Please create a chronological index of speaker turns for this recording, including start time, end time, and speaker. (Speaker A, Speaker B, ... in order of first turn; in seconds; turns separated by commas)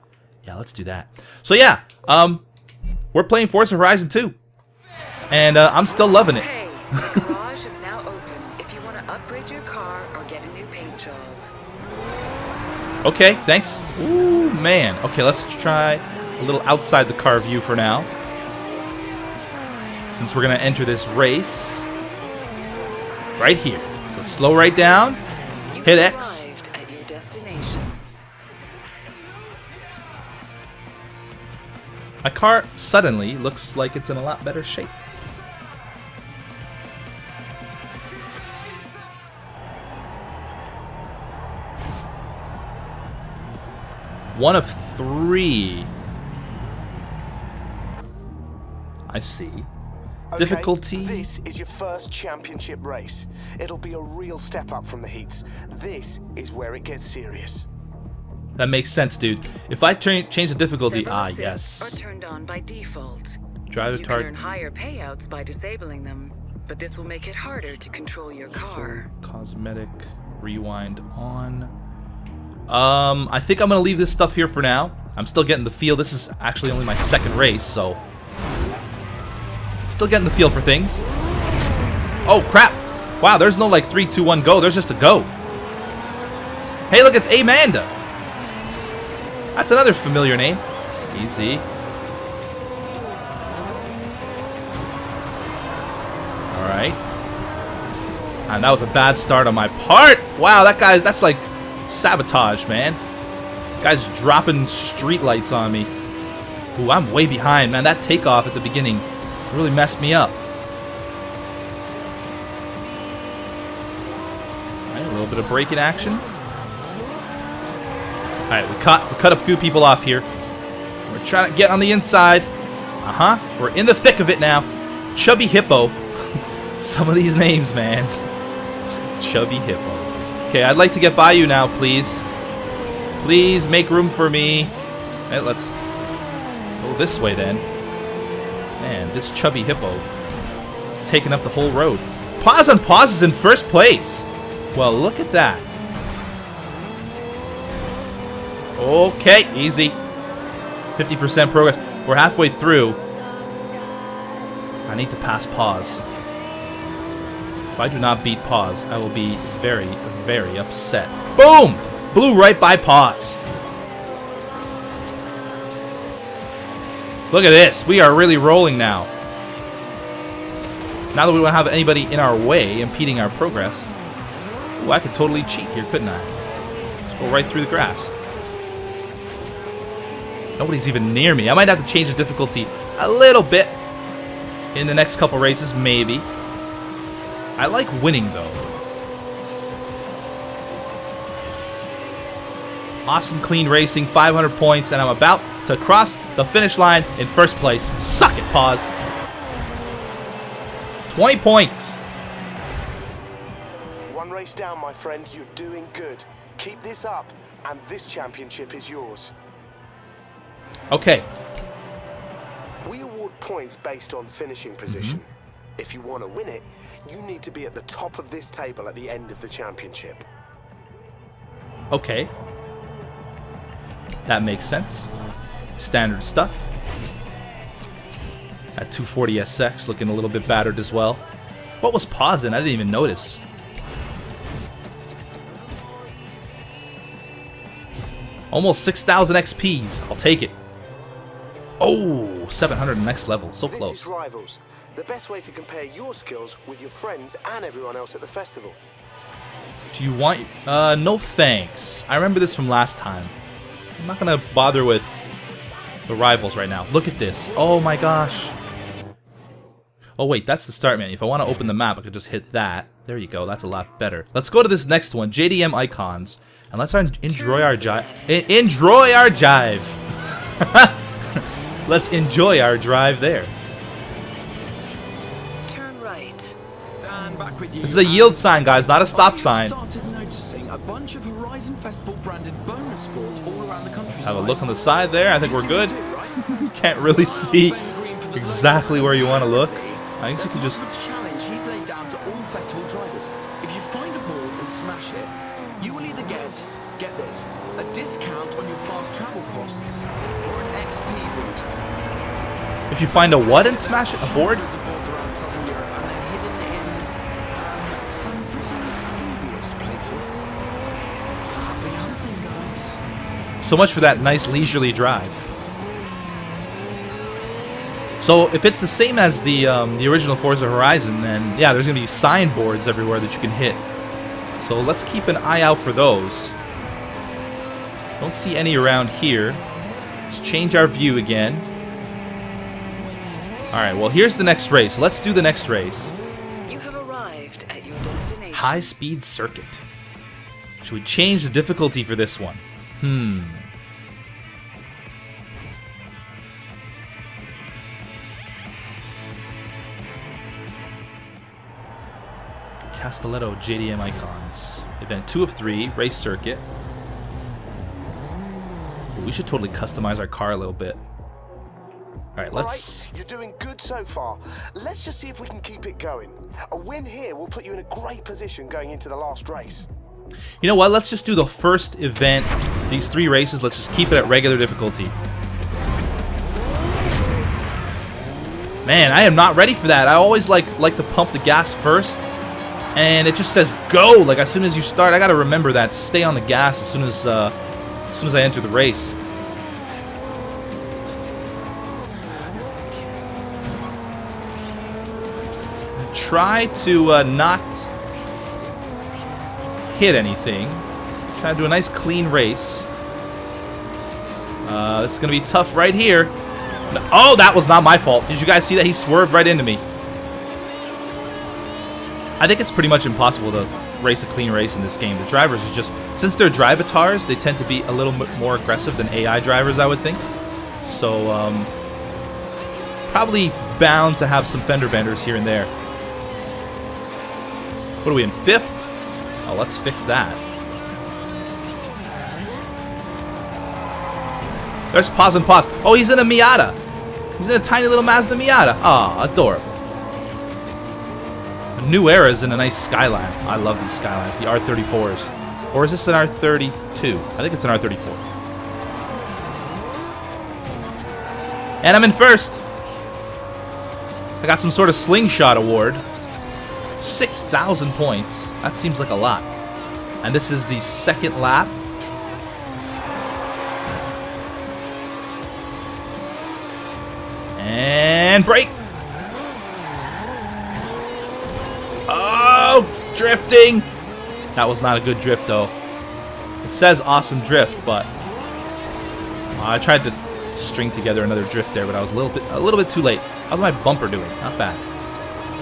Speaker A: 0.4-2.4, Speaker A: 3.1-4.3, Speaker A: 5.3-7.2, Speaker B: 6.1-11.4, Speaker A: 13.0-18.1, Speaker A: 20.1-21.9, Speaker A: 23.4-25.2, Speaker B: 25.7-28.1, Speaker A: 25.8-26.4, Speaker A: 32.2-34.9, Speaker A: 44.3-45.9, Speaker A: 49.1-49.7, Speaker C: 50.3-57.7, Speaker A: 50.4-51.3, Speaker A: 58.6-62.0, Speaker B: 60.8-69.1, Speaker A: 63.7-64.3, Speaker A: 68.5-71.7, Speaker A: 72.7-78.0, Speaker A: 79.8-81.0, Speaker A: 82.2-85.3, Speaker A: 86.9-87.9, Speaker A: 89.5-91.7, Speaker A: 96.5-97.0, Speaker A: 98.5-103.0, Speaker A: 103.8-105.9, Speaker A: 106.7-110.4, Speaker A: 114.9-116.2, Speaker A: 118.5-120.3, Speaker A: 121.1-122.5, Speaker A: 123.0-128.1, Speaker A: 129.1-132.2, Speaker A: 133.2-134.7, Speaker A: 135.3-135.8, Speaker A: 136.8-137.6, Speaker A: 138.8-140.1, Speaker A: 141.0-145.7, Speaker A: 148.8-150.0, Speaker A: 150.9-153.0, Speaker A: 154.9-156.0, Speaker A: 157.7-163.4, Speaker A: 167.3-169.1, Speaker A: 171.1-173.9, Speaker A: 174.8-176.3, Speaker A: 177.1-178.1, Speaker A: 180.6-183.8, Speaker A: 184.7-186.3, Speaker A: 187.6-188.7, Speaker A: 193.1-198.9, Speaker A: 201.1-202.0, Speaker C: 204.1-209.3, Speaker A: 210.9-211.3, Speaker C: 212.8-220.2, Speaker A: 214.9-215.2, Speaker A: 221.9-222.3, Speaker A: 224.2-225.1, Speaker A: 225.8-226.7, Speaker A: 228.8-231.2, Speaker A: 231.8-233.4, Speaker A: 238.5-240.6, Speaker A: 241.8-244.1, Speaker C: 243.6-248.8, Speaker A: 249.9-253.3, Speaker A: 254.0-255.1, Speaker A: 256.1-258.6, Speaker A: 260.2-270.0, Speaker B: 267.3-268.6, Speaker A: 270.6-273.5, Speaker B: 275.6-276.6, Speaker D: 277.0-278.3, Speaker C: 277.8-278.4, Speaker A: 277.8-279.8, Speaker C: 279.1-279.6, Speaker D: 279.1-284.5, Speaker C: 283.0-284.6, Speaker A: 284.1-290.8, Speaker C: 285.4-285.8, Speaker D: 285.4-286.2, Speaker C: 287.1-287.7, Speaker D: 287.3-301.8, Speaker C: 288.3-289.7, Speaker C: 293.1-293.7, Speaker C: 294.3-295.1, Speaker C: 298.9-299.2, Speaker C: 301.4-301.6, Speaker A: 302.9-304.6, Speaker C: 303.3-304.5, Speaker D: 303.3-310.4, Speaker C: 305.4-305.7, Speaker D: 311.4-312.9, Speaker C: 311.5-312.5, Speaker A: 313.6-315.3, Speaker C: 314.4-315.4, Speaker D: 314.8-315.6, Speaker A: 318.2-323.8, Speaker A: 324.6-326.6, Speaker A: 328.2-329.6, Speaker A: 330.3-331.7, Speaker A: 333.7-336.1, Speaker B: 336.7-338.9, Speaker A: 338.5-339.8, Speaker A: 340.8-343.7, Speaker A: 352.9-356.6, Speaker A: 359.1-361.0, Speaker A: 362.4-363.1, Speaker C: 362.5-369.9, Speaker A: 370.6-375.1, Speaker A: 378.9-382.2, Speaker A: 382.9-387.5, Speaker A: 388.1-389.1, Speaker A: 396.0-397.9, Speaker A: 399.9-402.9, Speaker A: 404.6-406.3, Speaker A: 406.9-409.8, Speaker A: 412.4-420.2, Speaker A: 420.8-421.7, Speaker A: 423.1-425.7, Speaker A: 428.0-428.8, Speaker A: 429.4-430.4, Speaker A: 434.9-436.8, Speaker A: 437.4-439.7, Speaker A: 441.8-448.2, Speaker A: 451.8-452.6, Speaker A: 454.4-456.0, Speaker A: 457.0-459.5, Speaker A: 460.2-461.7, Speaker A: 467.6-468.7, Speaker A: 472.1-473.9, Speaker A: 474.6-475.7, Speaker A: 476.6-478.1, Speaker A: 479.6-484.8